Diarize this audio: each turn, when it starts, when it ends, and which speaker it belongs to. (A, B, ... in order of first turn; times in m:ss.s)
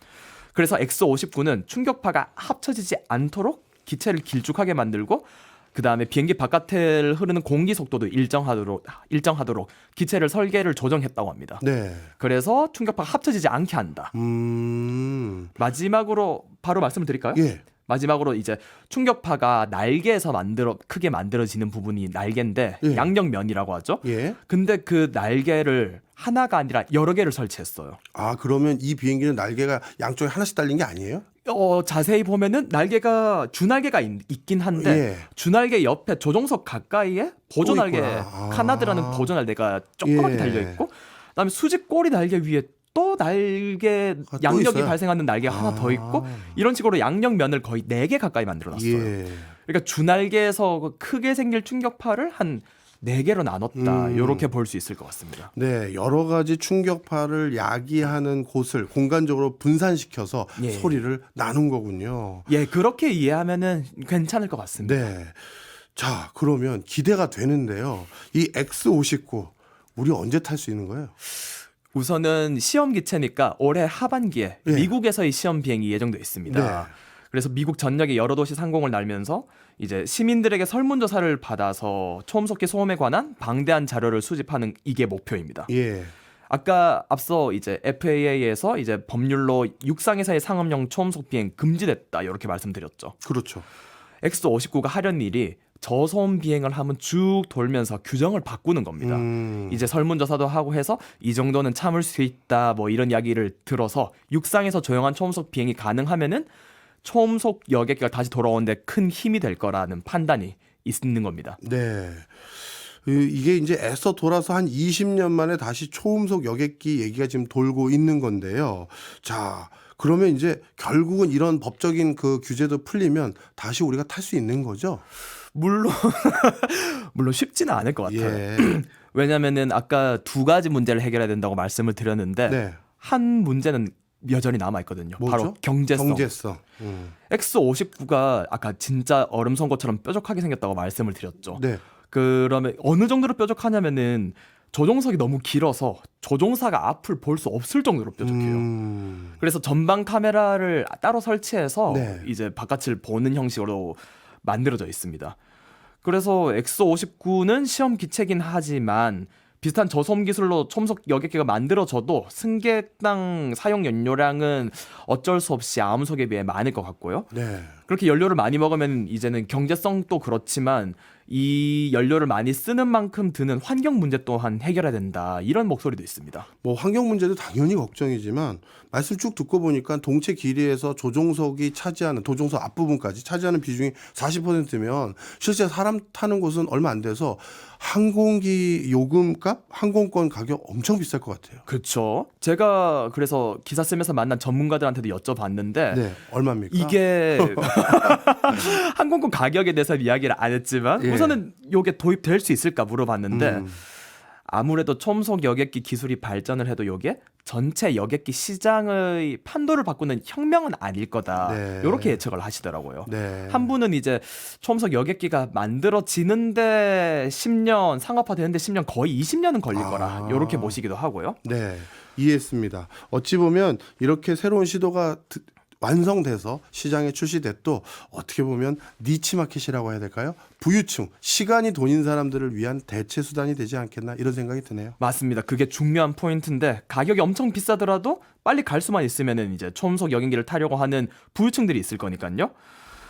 0:00.5-0:11.6 A
0:11.6-0:12.1 B
0:12.2-0:14.1 A
0:14.1-0:15.5 B
0:15.6-0:28.0 A
0:17.3-0:17.6 B
0:22.8-0:23.1 B
0:24.0-0:24.4 B
0:28.1-0:31.2 B
0:31.4-0:49.1 A
0:34.8-0:35.3 B
0:37.6-0:39.3 B
0:40.0-0:40.8 B
0:44.3-0:46.6 B
0:48.7-0:49.5 B
0:49.7-0:55.5 A
0:53.7-0:54.5 B
0:55.6-1:02.5 B
1:00.6-1:01.0 A
1:02.5-1:05.1 A
1:04.8-1:11.1 B
1:11.9-1:25.7 A
1:14.6-1:14.9 B
1:16.4-1:16.9 B
1:25.7-1:26.1 B
1:26.5-1:33.2 A
1:33.2-1:33.6 B
1:34.2-1:46.5 A
1:39.0-1:39.8 B
1:47.0-1:51.6 A
1:51.6-2:05.0 B
2:05.5-2:16.3 A
2:08.0-2:08.7 B
2:12.5-2:12.8 B
2:15.2-2:17.1 B
2:17.3-2:28.6 A
2:21.5-2:21.8 B
2:28.2-2:29.4 B
2:29.4-2:35.4 A
2:31.9-2:32.3 B
2:36.0-2:47.3 A
2:47.3-2:47.8 B
2:47.9-2:56.5 A
2:56.6-3:11.6 B
3:11.6-3:16.0 A
3:15.9-3:18.4 B
3:16.7-3:23.8 A
3:21.0-3:21.4 B
3:23.3-3:23.8 B
3:24.5-3:41.4 A
3:31.4-3:32.2 B
3:33.0-3:33.7 B
3:39.7-3:40.8 B
3:41.4-3:55.0 B
3:55.0-4:02.5 A